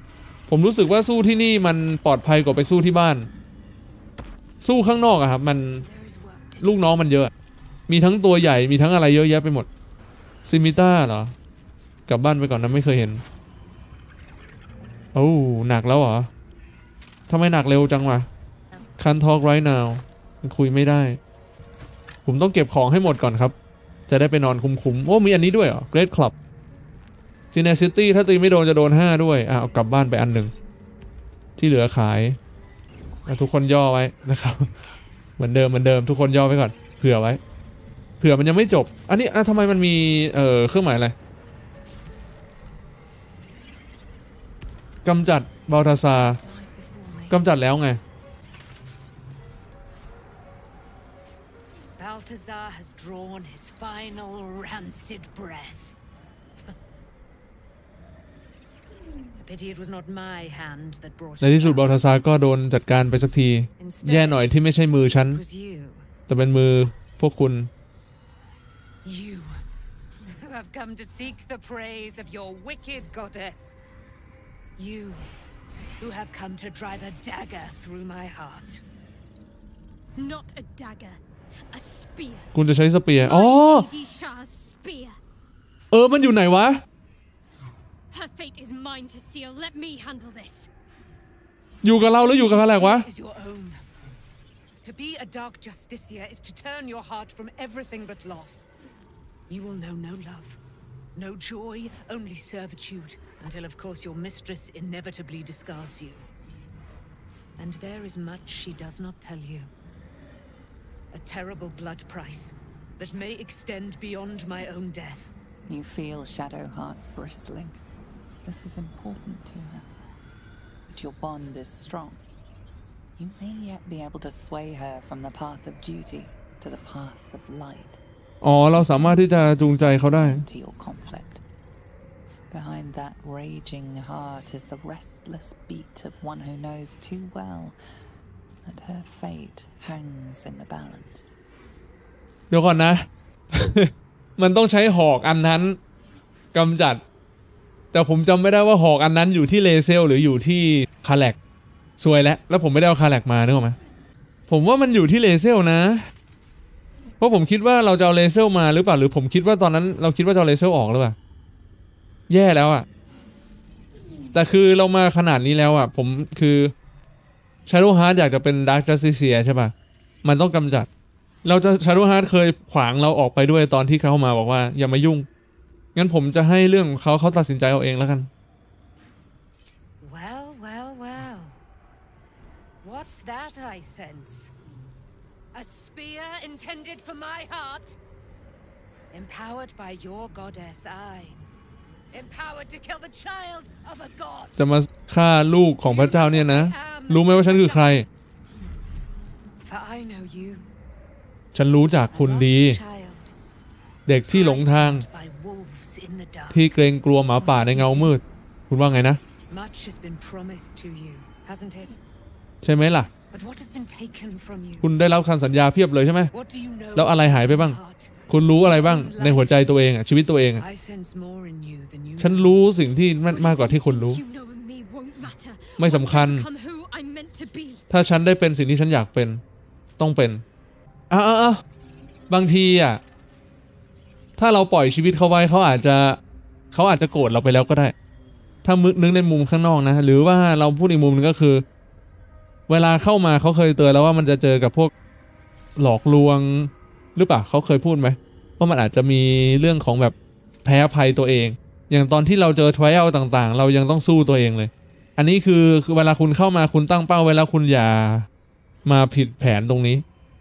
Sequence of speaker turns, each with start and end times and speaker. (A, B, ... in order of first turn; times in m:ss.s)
0:00.5-0:03.3 A
0:04.6-0:05.8 A
0:05.8-0:06.9 B
0:06.6-0:07.3 A
0:07.9-0:09.7 A
0:10.5-0:11.3 A
0:12.1-0:13.2 A
0:15.1-0:16.3 A
0:17.3-0:18.3 A
0:19.0-0:21.2 A
0:22.3-0:23.6 A
0:24.1-0:26.3 A
0:27.5-0:30.5 A
0:31.6-0:32.4 A
0:33.2-0:33.6 B
0:33.3-0:34.8 A
0:35.4-0:37.4 A
0:38.2-0:41.2 A
0:45.0-0:46.4 A
0:46.3-0:47.4 B
0:47.3-0:48.0 A
0:52.0-0:56.0 B
0:59.4-1:02.2 B
1:01.4-1:05.4 A
1:03.8-1:04.6 B
1:05.1-1:06.1 B
1:06.3-1:07.7 A
1:09.0-1:09.6 B
1:10.3-1:13.8 B
1:14.8-1:15.3 B
1:16.0-1:18.8 B
1:20.2-1:21.2 C
1:21.7-1:22.5 C
1:22.5-1:23.9 A
1:23.2-1:25.2 C
1:25.9-1:26.8 A
1:28.1-1:30.7 C
1:31.8-1:33.0 A
1:31.9-1:33.8 B
1:34.8-1:38.7 B
1:39.5-1:40.6 B
1:41.2-1:46.3 B
1:47.6-1:49.7 B
1:51.1-1:55.3 B
1:55.7-1:57.8 D
1:58.4-1:59.9 D
2:00.9-2:02.2 D
2:03.2-2:08.0 D
2:08.4-2:10.4 A
2:08.8-2:11.4 D
2:12.5-2:17.8 D
2:18.6-2:21.3 D
2:22.5-2:25.8 A
2:26.5-2:27.0 A
2:27.9-2:31.4 A
2:32.0-2:33.8 A
2:34.5-2:36.1 A
2:37.2-2:41.2 A
2:42.3-2:42.9 A
2:44.3-2:46.7 A
2:47.7-2:49.7 A
2:50.2-2:50.9 A
2:51.4-2:55.3 A
2:56.0-2:58.3 A
3:00.0-3:01.6 B
3:02.8-3:04.5 B
3:05.5-3:08.0 B
3:09.1-3:11.4 B
3:12.1-3:14.6 B
3:14.6-3:18.1 A
3:15.8-3:18.0 B
3:19.6-3:20.7 B
3:21.5-3:22.8 A
3:22.1-3:23.3 B
3:24.1-3:25.0 A
3:24.3-3:26.7 B
3:26.5-3:29.2 A
3:27.4-3:28.2 B
3:29.5-3:32.0 B
3:32.6-3:33.1 A
3:33.3-3:34.9 B
3:34.8-3:36.3 A
3:36.3-3:39.7 B
3:37.0-3:37.8 A
3:38.3-3:40.6 A
3:40.6-3:42.6 B
3:42.2-3:44.2 A
3:43.2-3:47.8 C
3:45.8-3:46.5 A
3:47.9-3:49.4 A
3:50.0-3:50.4 A
3:51.1-3:51.6 A
3:52.3-3:53.0 A
3:54.4-3:56.2 A
3:56.7-3:58.0 A
3:58.6-4:01.6 A
4:02.7-4:04.9 A
4:05.8-4:18.3 A
4:18.8-4:20.0 A